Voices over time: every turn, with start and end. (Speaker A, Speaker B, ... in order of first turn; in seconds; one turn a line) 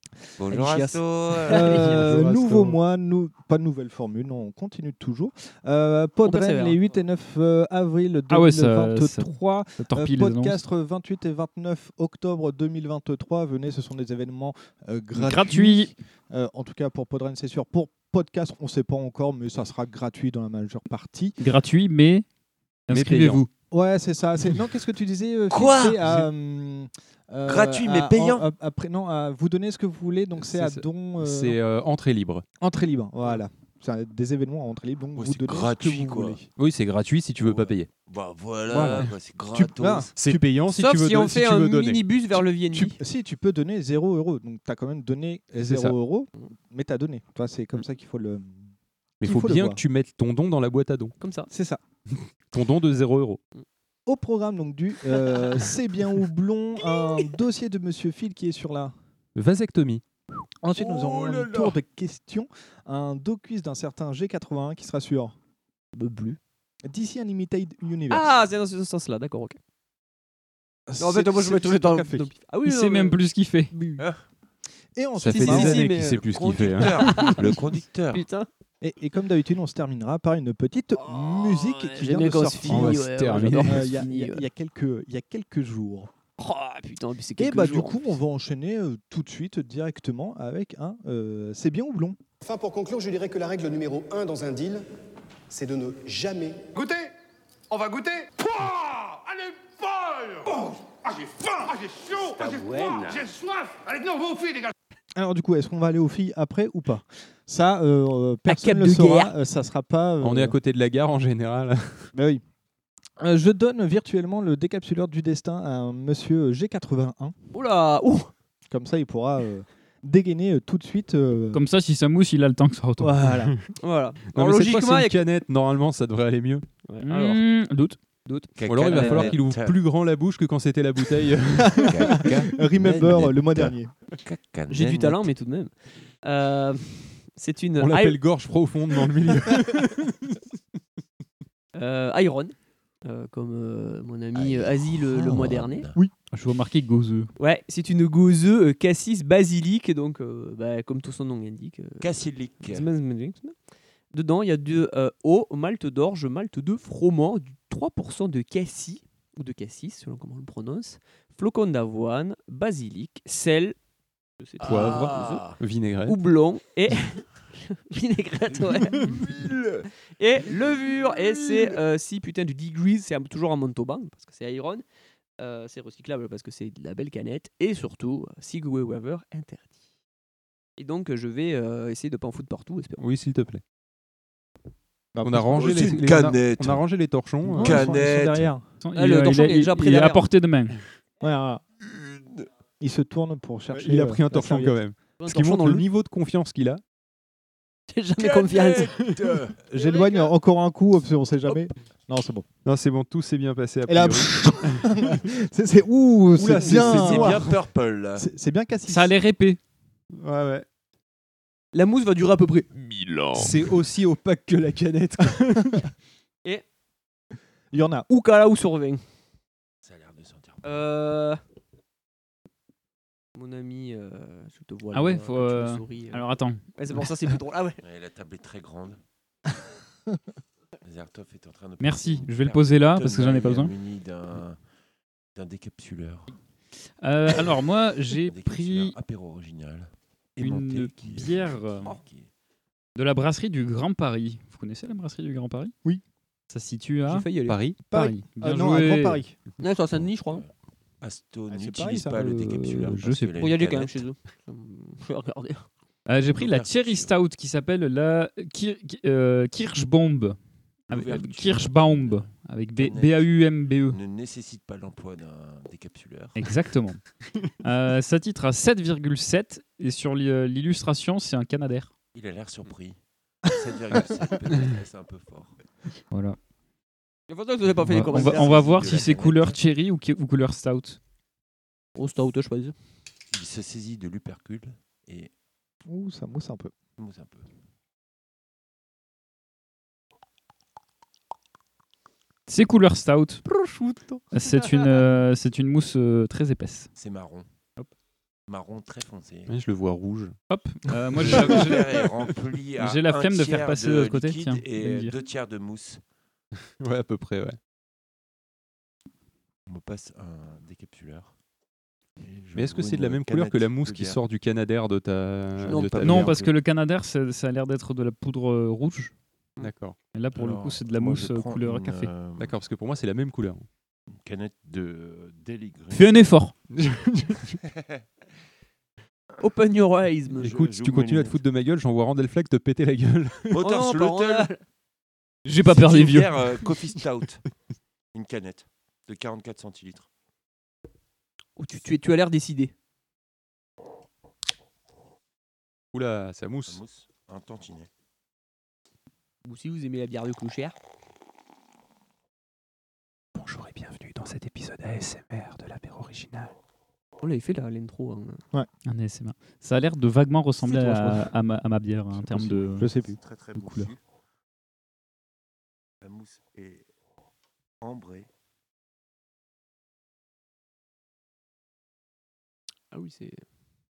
Speaker A: 0.4-2.0
Speaker B: 0.6-21.4
Speaker C: 2.0-2.7
Speaker D: 6.2-6.8
Speaker E: 8.3-10.6
Speaker E: 15.1-15.9
Speaker E: 21.4-22.2
Speaker E: 22.9-23.5
Speaker C: 22.9-23.4
Speaker B: 23.7-31.6
Speaker A: 25.5-26.1
Speaker A: 27.4-28.5
Speaker C: 30.4-32.4
Speaker B: 32.6-36.5
Speaker A: 35.1-36.4
Speaker C: 36.5-37.9
Speaker A: 37.4-40.1
Speaker B: 38.7-40.1
Speaker C: 40.1-42.0
Speaker D: 40.6-43.0
Speaker B: 42.7-48.7
Speaker C: 45.6-45.9
Speaker C: 49.2-51.1
Speaker B: 49.2-49.8
Speaker D: 51.2-51.5
Speaker B: 51.5-51.8
Speaker C: 52.5-53.4
Speaker B: 54.0-58.9
Speaker D: 55.1-55.6
Speaker D: 56.8-57.3
Speaker C: 59.4-60.0
Speaker B: 60.6-65.3
Speaker A: 61.0-61.7
Speaker D: 65.9-66.4
Speaker B: 66.8-68.3
Speaker D: 68.1-69.6
Speaker B: 70.9-72.3
Speaker D: 71.0-73.2
Speaker E: 72.6-73.7
Speaker D: 73.7-74.1
Speaker B: 75.0-75.9
Speaker C: 75.2-77.3
Speaker D: 75.3-78.5
Speaker A: 76.3-78.2
Speaker B: 78.8-86.1
Speaker D: 81.8-84.5
Speaker C: 82.6-84.0
Speaker D: 86.4-88.0
Speaker B: 87.4-92.2
Speaker F: 92.4-94.8
Speaker F: 95.5-96.6
Speaker G: 96.7-97.1
Speaker G: 97.7-104.7
Speaker A: 102.4-103.2
Speaker B: 105.1-110.5
Speaker D: 108.5-109.4
Speaker C: 110.2-112.1
Speaker B: 112.1-112.4
Speaker B: 113.2-117.3
Speaker D: 117.5-118.3
Speaker B: 118.7-121.6
Speaker E: 121.5-123.5
Speaker B: 123.0-123.6
Speaker D: 123.8-125.2
Speaker C: 124.3-126.6
Speaker D: 126.8-127.4
Speaker E: 127.0-128.5
Speaker A: 128.6-129.8
Speaker C: 128.6-132.3
Speaker D: 128.8-129.4
Speaker E: 129.0-129.3
Speaker B: 131.6-133.9
Speaker A: 131.8-135.3
Speaker D: 134.7-138.2
Speaker C: 137.8-140.3
Speaker D: 141.7-145.9
Speaker A: 144.3-145.9
Speaker E: 146.3-147.3
Speaker D: 147.4-153.6
Speaker A: 152.0-152.9
Speaker D: 154.1-163.8
Speaker D: 164.4-165.5
Speaker C: 164.6-166.2
Speaker A: 164.7-165.5
Speaker D: 166.1-169.3
Speaker A: 168.5-169.9
Speaker D: 170.2-174.8
Speaker A: 170.5-171.8
Speaker D: 175.4-179.7
Speaker D: 180.8-183.0
Speaker C: 183.0-183.6
Speaker B: 185.1-185.8
Speaker C: 185.2-187.8
Speaker A: 185.5-187.1
Speaker B: 187.5-188.7
Speaker E: 187.5-187.8
Speaker A: 187.6-188.5
Speaker E: 188.8-190.8
Speaker D: 188.9-190.3
Speaker B: 191.2-191.6
Speaker A: 191.8-192.5
Speaker B: 192.8-194.8
Speaker C: 193.7-196.8
Speaker D: 195.2-195.9
Speaker D: 197.9-199.1
Speaker A: 198.2-200.1
Speaker B: 199.7-202.4
Speaker C: 202.6-205.0
Speaker B: 203.9-207.5
Speaker C: 206.3-207.4
Speaker A: 206.5-208.3
Speaker B: 208.2-209.2
Speaker E: 208.9-209.6
Speaker C: 210.1-210.6
Speaker D: 211.7-213.7
Speaker C: 213.3-215.8
Speaker B: 217.7-218.1
Speaker D: 218.1-219.0
Speaker A: 219.8-220.8
Speaker D: 220.6-221.4
Speaker D: 223.3-227.8
Speaker E: 224.9-226.6
Speaker A: 227.8-229.0
Speaker A: 230.8-234.6
Speaker E: 231.8-233.7
Speaker A: 235.3-236.3
Speaker E: 237.0-238.9
Speaker A: 238.2-242.3
Speaker E: 240.4-241.9
Speaker E: 242.9-245.7
Speaker E: 246.5-247.3
Speaker D: 247.1-247.6
Speaker C: 247.5-247.8
Speaker E: 247.9-249.2
Speaker B: 247.9-249.3
Speaker D: 249.6-250.4
Speaker A: 250.2-250.5
Speaker A: 251.0-254.0
Speaker B: 251.5-252.2
Speaker E: 252.2-253.3
Speaker D: 253.4-255.7
Speaker E: 256.1-260.4
Speaker A: 256.3-257.1
Speaker A: 260.9-266.5
Speaker E: 260.9-264.0
Speaker E: 266.3-267.0
Speaker E: 267.6-271.9
Speaker A: 272.1-275.6
Speaker E: 276.1-276.4
Speaker D: 277.3-279.1
Speaker A: 277.9-279.6
Speaker E: 277.9-281.0
Speaker D: 281.9-282.7
Speaker A: 283.3-285.3
Speaker B: 285.9-286.7
Speaker A: 287.0-287.4
Speaker E: 292.5-293.4
Speaker B: 293.4-294.2
Speaker E: 294.3-296.9
Speaker A: 296.9-297.5
Speaker A: 298.5-299.6
Speaker C: 299.5-300.4
Speaker E: 300.5-302.0
Speaker A: 301.1-306.0
Speaker E: 302.8-305.1
Speaker C: 306.8-307.6
Speaker A: 309.7-311.3
Speaker A: 312.2-314.2
Speaker C: 312.5-316.4
Speaker A: 315.6-316.6
Speaker D: 315.6-316.0
Speaker E: 316.0-319.1
Speaker C: 319.6-320.0
Speaker E: 320.1-322.1
Speaker A: 320.3-322.6
Speaker C: 322.4-323.7
Speaker A: 324.1-326.3
Speaker E: 325.9-326.5
Speaker C: 326.7-327.6
Speaker A: 327.6-328.0
Speaker D: 329.4-330.6
Speaker C: 330.4-333.5
Speaker A: 330.4-331.4
Speaker A: 333.5-334.5
Speaker D: 333.6-334.6
Speaker E: 335.4-336.3
Speaker A: 335.6-337.4
Speaker D: 335.8-336.1
Speaker A: 338.1-340.1
Speaker D: 341.6-342.7
Speaker C: 345.9-346.8
Speaker A: 346.7-347.9
Speaker D: 349.4-350.8
Speaker C: 353.4-356.5
Speaker D: 357.2-358.4
Speaker E: 358.9-362.9
Speaker D: 360.6-361.0
Speaker A: 362.7-364.0
Speaker B: 362.8-363.2
Speaker E: 363.5-363.9
Speaker A: 366.0-366.8
Speaker A: 367.8-368.3
Speaker D: 372.9-373.4